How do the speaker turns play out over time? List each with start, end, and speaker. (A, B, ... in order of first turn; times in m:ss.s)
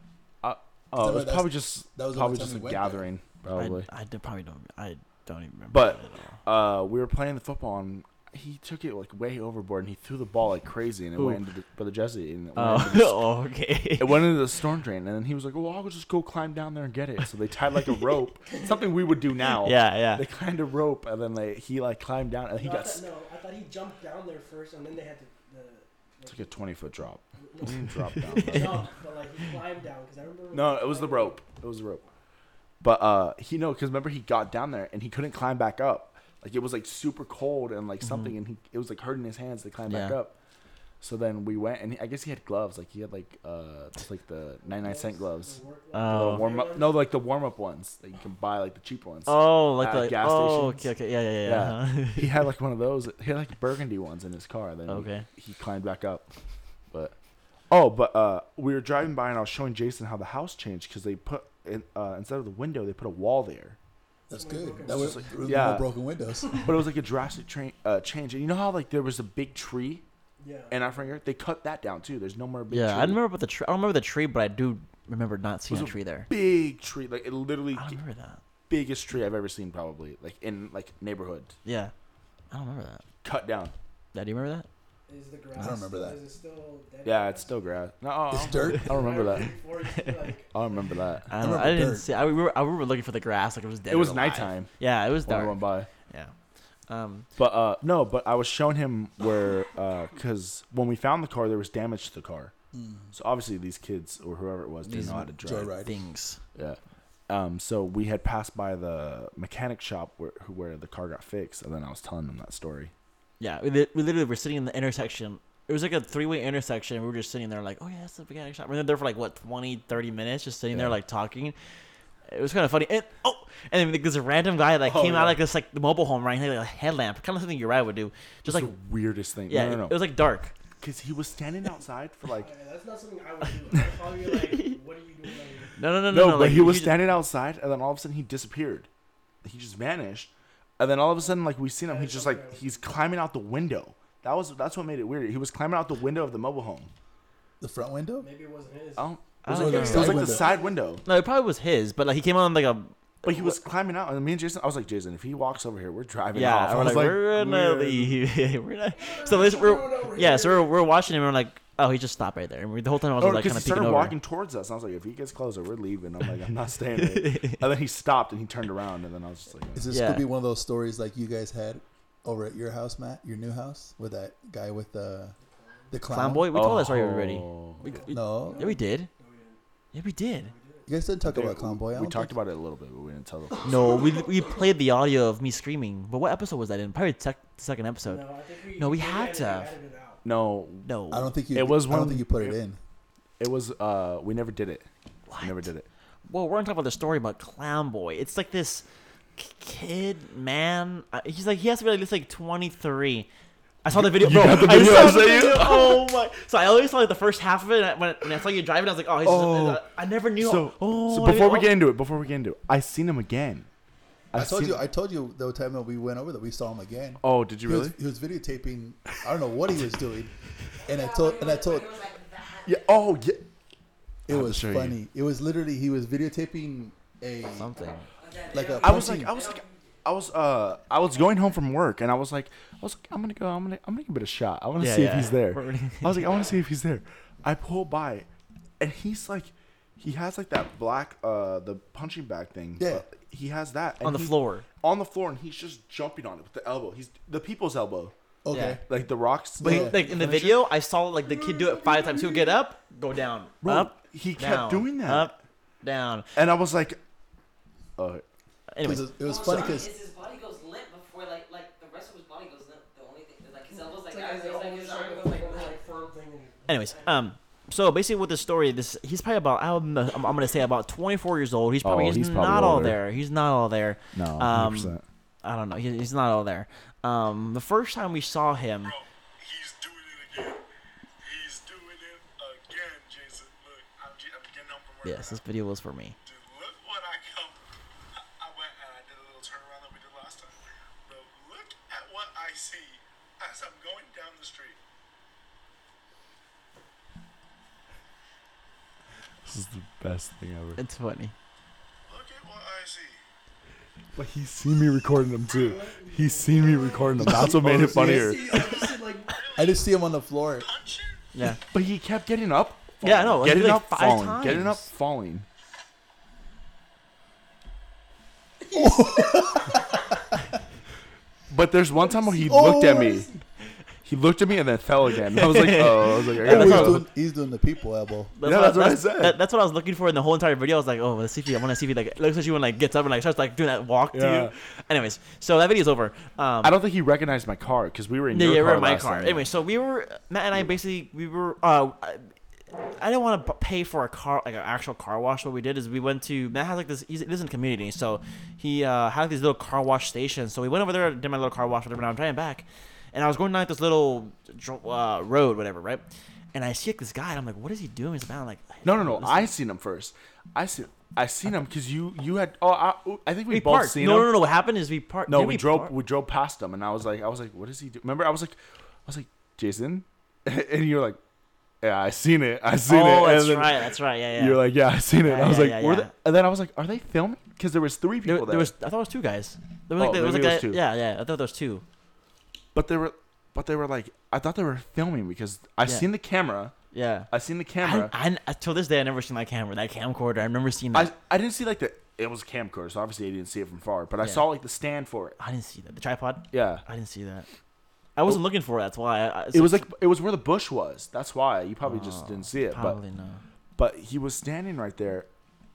0:00.4-0:03.9 A
0:01.0-0:03.1 B
0:03.5-0:06.4 C
0:05.7-0:13.2 A
0:12.6-0:14.3 C
0:14.0-0:23.1 A
0:18.5-0:18.9 D
0:19.6-0:20.2 C
0:22.6-0:26.5 D
0:26.2-0:28.9 A
0:27.4-0:31.4 D
0:28.2-0:28.8 C
0:30.5-0:32.0 A
0:32.8-0:40.3 A
0:38.0-0:38.3 C
0:39.9-0:40.2 C
0:41.0-0:50.9 A
0:44.6-0:47.1 D
0:45.9-0:46.5 C
0:49.3-0:52.4 C
0:51.4-0:56.3 A
0:54.9-0:55.3 C
0:57.7-1:03.8 A
1:04.3-1:06.7 B
1:04.3-1:05.2 D
1:04.8-1:05.9 A
1:06.5-1:10.0 A
1:10.4-1:11.1 D
1:10.7-1:13.2 A
1:12.7-1:16.3 C
1:15.7-1:18.0 A
1:17.7-1:18.4 C
1:18.7-1:21.6 A
1:21.6-1:21.9 C
1:22.5-1:23.0 C
1:23.2-1:23.7 A
1:24.1-1:24.7 C
1:25.1-1:27.6 D
1:25.6-1:26.2 B
1:27.0-1:29.6 A
1:28.3-1:29.0 B
1:28.6-1:30.8 D
1:29.8-1:30.3 C
1:30.5-1:31.3 A
1:31.3-1:36.3 C
1:31.4-1:32.1 B
1:33.9-1:34.7 A
1:35.2-1:35.9 A
1:36.9-1:37.3 C
1:37.4-1:42.5 A
1:42.7-1:43.1 B
1:43.1-1:45.7 A
1:44.8-1:46.4 C
1:45.4-1:46.0 B
1:46.5-1:52.9 A
1:53.4-2:01.5 C
2:02.3-2:08.7 C
2:04.8-2:05.4 A
2:08.4-2:10.0 A
2:09.5-2:10.5 C
2:10.8-2:12.5 A
2:12.3-2:15.7 D
2:14.4-2:14.8 C
2:15.8-2:17.0 C
2:16.1-2:18.9 A
2:19.4-2:26.9 A
2:21.2-2:22.8 D
2:27.6-2:28.3 B
2:28.2-2:30.8 D
2:29.0-2:31.0 A
2:29.4-2:30.3 C
2:29.5-2:30.5 B
2:31.0-2:33.6 C
2:33.2-2:38.2 A
2:36.3-2:44.1 C
2:39.0-2:40.7 D
2:43.2-2:49.9 A
2:47.0-2:47.6 C
2:49.7-2:55.4 B
2:49.9-2:50.2 C
2:55.4-2:56.0 D
2:55.9-2:56.5 B
2:56.1-2:59.1 C
2:56.5-2:57.9 A
2:57.8-2:59.6 D
2:58.1-2:58.7 B
2:59.9-3:00.5 C
3:00.4-3:00.9 D
3:00.9-3:02.4 B
3:01.2-3:04.1 A
3:03.6-3:08.2 C
3:08.0-3:10.2 D
3:08.8-3:09.7 C
3:10.2-3:10.9 A
3:10.8-3:11.3 C
3:11.1-3:12.8 B
3:11.5-3:12.6 A
3:13.4-3:14.9 A
3:15.3-3:15.7 C
3:15.4-3:15.8 A
3:16.3-3:18.8 C
3:19.4-3:23.3 C
3:23.8-3:31.7 C
3:23.9-3:26.0 A
3:29.2-3:29.8 A
3:30.4-3:33.7 A
3:34.3-3:34.8 A
3:34.3-3:40.3 B
3:37.2-3:38.0 A
3:40.8-3:43.0 E
3:40.8-3:42.0 B
3:42.6-3:43.4 A
3:44.3-3:45.0 A
3:44.3-3:47.9 B
3:47.5-3:48.0 C
3:48.2-3:50.0 E
3:48.5-3:49.3 B
3:48.8-3:58.3 A
3:54.8-3:56.3 C
3:58.8-4:08.1 A
4:02.8-4:03.0 B
4:04.0-4:04.6 C
4:08.4-4:08.8 B
4:08.5-4:08.8 C
4:08.8-4:10.6 A
4:09.6-4:10.2 B
4:09.6-4:16.3 C
4:11.2-4:12.5 D
4:13.6-4:15.3 A
4:16.3-4:17.0 A
4:18.0-4:18.2 A
4:18.7-4:19.1 C
4:18.8-4:19.9 B
4:19.2-4:25.9 E
4:23.7-4:27.1 D
4:26.7-4:38.9 C
4:31.8-4:33.0 A
4:34.1-4:35.0 A
4:38.8-4:40.6 F
4:41.2-4:45.4 F
4:45.0-4:46.2 C
4:46.2-4:47.6 F
4:48.4-4:54.8 F
4:59.4-5:00.8 A
5:00.8-5:01.3 C
5:02.1-5:03.2 F
5:04.2-5:08.9 A
5:05.4-5:09.4 D
5:07.2-5:08.6 B
5:09.3-5:09.8 F
5:09.5-5:10.7 B
5:10.6-5:11.2 F
5:11.3-5:11.6 C
5:11.7-5:15.4 A
5:13.0-5:14.9 C
5:18.6-5:20.1 D
5:18.7-5:20.3 B
5:21.5-5:23.3 A
5:22.0-5:23.4 D
5:22.4-5:23.3 B
5:24.0-5:27.0 A
5:25.3-5:27.0 C
5:26.4-5:28.3 B
5:28.4-5:36.7 C
5:28.4-5:29.4 A
5:34.1-5:34.5 A
5:36.6-5:39.4 A
5:38.3-5:42.3 C
5:42.9-5:59.5 C
5:58.8-6:04.3 A
6:03.5-6:05.9 C
6:05.3-6:11.2 A
6:11.8-6:18.7 A
6:12.9-6:14.6 C
6:15.2-6:16.1 C
6:18.2-6:21.8 C
6:20.0-6:20.8 A
6:22.7-6:26.7 A
6:26.9-6:27.3 C
6:27.3-6:28.1 A
6:27.8-6:31.1 C
6:30.9-6:35.4 A
6:35.4-6:37.5 C
6:36.5-6:36.8 A
6:38.2-6:39.9 C
6:39.5-6:43.0 A
6:41.8-6:43.4 C
6:43.8-6:45.3 A